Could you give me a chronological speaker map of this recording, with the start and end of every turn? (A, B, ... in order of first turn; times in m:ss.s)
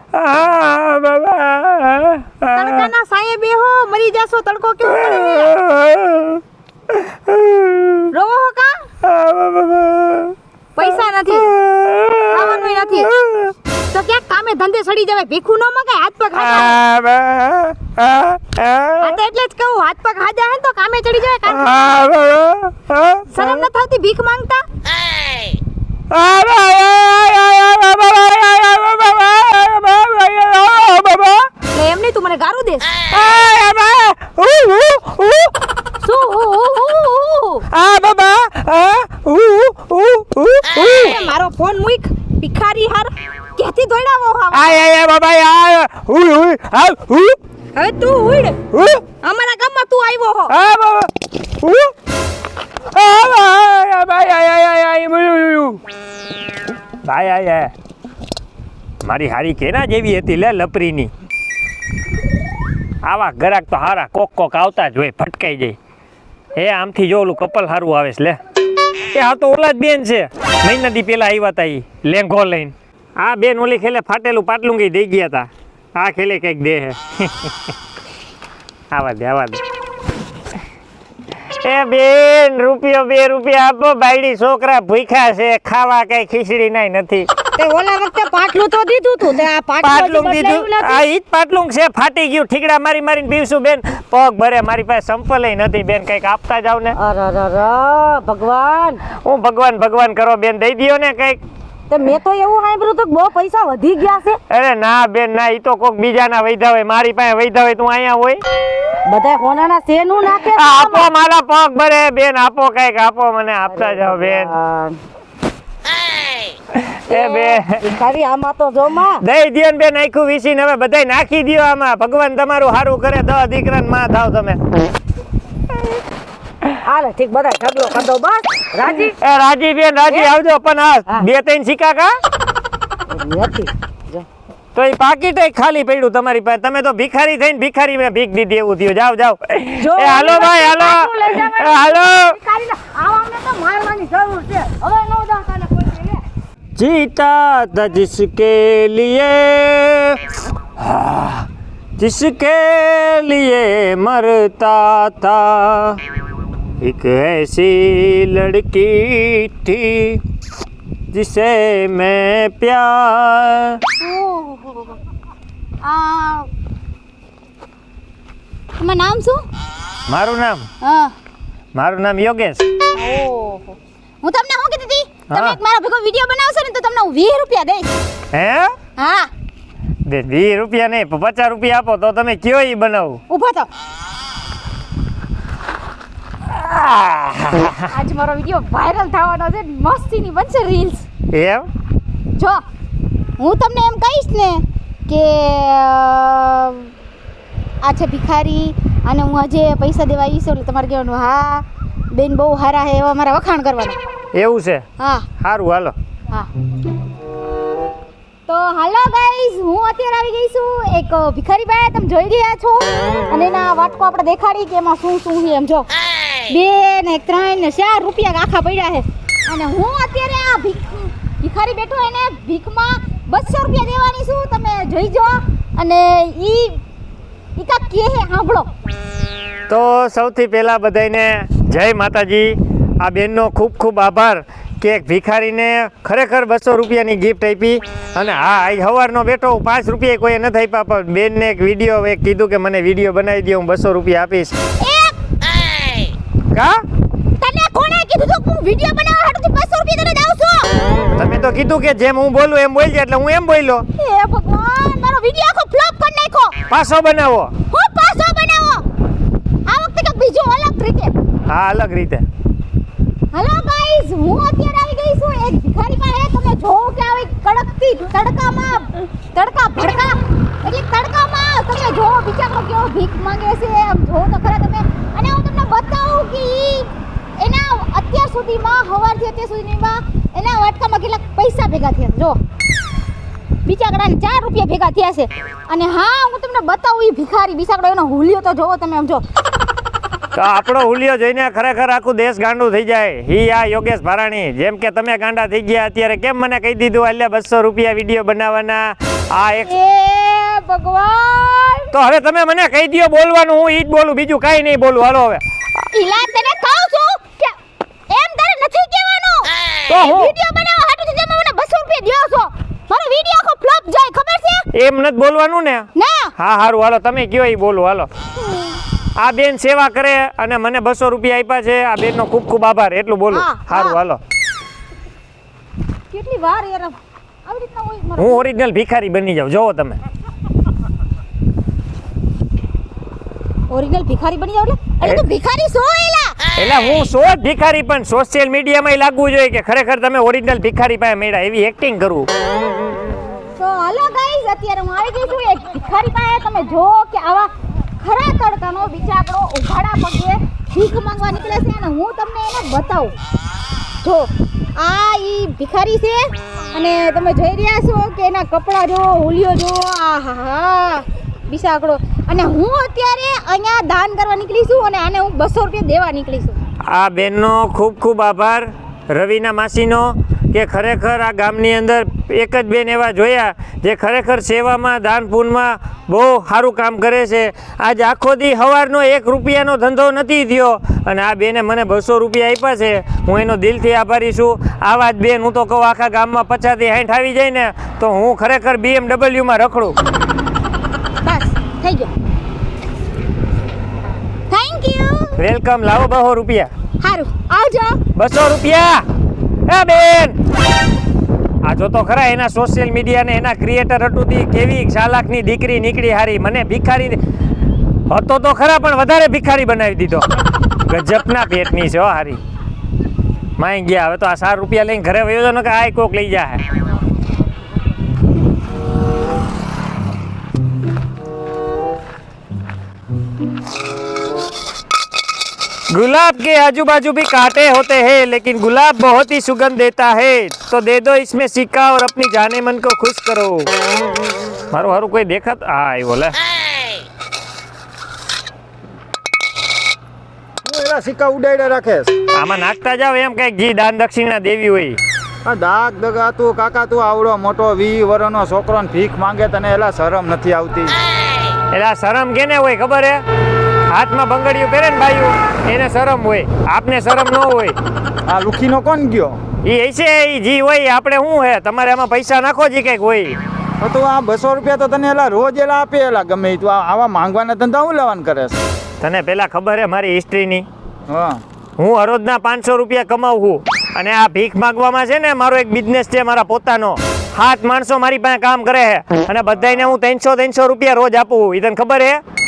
0:00.1-0:02.9 A
0:02.5-0:05.5 B
0:04.9-0:08.1 A
0:08.1-0:08.9 B
0:09.0-0:13.5 A
0:10.8-0:11.5 B
0:12.3-0:13.1 B
0:13.9-0:16.8 B
0:16.3-0:19.2 A
0:19.0-0:21.9 B
0:21.4-0:23.6 A
0:23.3-0:24.6 B
0:26.1-0:31.5 A
0:31.7-0:32.9 B
0:33.1-0:35.5 A
0:36.0-0:37.6 B
0:37.7-0:41.2 A
0:40.8-0:44.8 B
0:44.5-0:47.4 A
0:47.7-0:48.6 B
0:48.7-0:49.0 A
0:49.2-0:50.5 B
0:50.5-0:51.1 A
0:51.6-0:51.9 A
0:52.9-0:55.8 A
0:57.0-0:57.7 A
0:59.0-1:01.1 A
1:03.0-1:05.8 A
1:06.5-1:08.4 A
1:09.1-1:17.5 A
1:18.9-1:19.6 A
1:21.6-1:27.3 A
1:27.6-1:31.0 B
1:29.2-1:30.2 C
1:29.8-1:37.0 A
1:36.9-1:39.0 C
1:39.2-1:41.4 A
1:41.9-1:44.4 C
1:44.5-1:48.4 A
1:49.0-1:51.0 C
1:50.4-1:54.5 A
1:53.7-1:55.0 C
1:56.7-1:57.8 A
1:57.1-1:59.2 C
1:59.2-2:04.6 A
2:06.8-2:09.1 C
2:09.2-2:12.2 A
2:13.1-2:14.2 C
2:14.7-2:22.4 A
2:19.9-2:26.1 B
2:20.0-2:21.1 C
2:22.5-2:24.8 C
2:26.8-2:30.2 A
2:30.8-2:31.4 A
2:32.0-2:36.0 A
2:36.8-2:40.2 A
2:41.1-2:43.8 A
2:44.0-2:45.0 B
2:45.8-2:46.5 B
2:48.8-2:49.4 B
2:50.1-2:50.6 A
2:50.8-2:51.1 B
2:51.7-2:52.6 A
2:52.9-2:57.9 B
2:55.3-2:55.6 A
2:58.3-2:58.7 A
2:59.0-2:59.3 B
3:00.0-3:03.2 A
3:03.3-3:03.7 B
3:06.4-3:07.8 A
3:07.9-3:11.0 B
3:11.3-3:11.7 A
3:12.4-3:12.6 B
3:13.4-3:16.9 B
3:17.8-3:24.0 B
3:24.3-3:24.8 A
3:25.0-3:25.3 B
3:25.4-3:25.9 A
3:28.5-3:35.9 B
3:36.4-3:46.8 B
3:47.6-3:48.7 B
3:49.7-4:04.5 A
4:04.8-4:05.2 B
4:06.5-4:06.8 A
4:07.4-4:10.7 B
4:11.2-4:13.8 A
4:14.0-4:16.6 B
4:16.7-4:17.5 A
4:17.7-4:18.8 B
4:19.6-4:21.1 B
4:21.5-4:22.2 A
4:23.3-4:42.4 B
4:43.6-4:49.2 B
4:50.3-4:59.7 A
4:59.6-5:01.9 B
5:01.9-5:05.4 A
5:05.9-5:07.6 B
5:08.1-5:14.6 B
5:09.9-5:10.3 A
5:14.7-5:18.1 A
5:16.0-5:16.3 B
5:18.4-5:18.8 B
5:19.2-5:24.2 A
5:23.3-5:24.0 B
5:26.1-5:28.4 B
5:28.2-5:30.0 A
5:33.7-5:36.4 B
5:36.6-5:42.3 A
5:43.6-5:53.1 B
5:54.0-6:06.6 B
6:06.8-6:30.0 A
6:31.2-6:32.1 B
6:34.5-6:35.4 B
6:35.4-6:36.7 A
6:37.0-6:38.0 B
6:38.1-6:39.0 A
6:39.7-6:40.4 A
6:41.6-6:47.2 A
6:48.1-6:50.3 A
6:50.8-6:52.4 A
6:53.6-6:56.6 A
7:05.9-7:13.7 A
7:14.7-7:16.4 A
7:20.6-7:22.1 D
7:22.3-7:25.0 A
7:25.4-7:31.0 D
7:31.7-7:33.2 A
7:33.9-7:37.8 A
7:38.3-7:39.4 D
7:39.6-7:43.4 A
7:43.8-7:48.6 D
7:49.0-7:50.6 A
7:51.1-7:51.4 D
7:51.8-8:02.2 A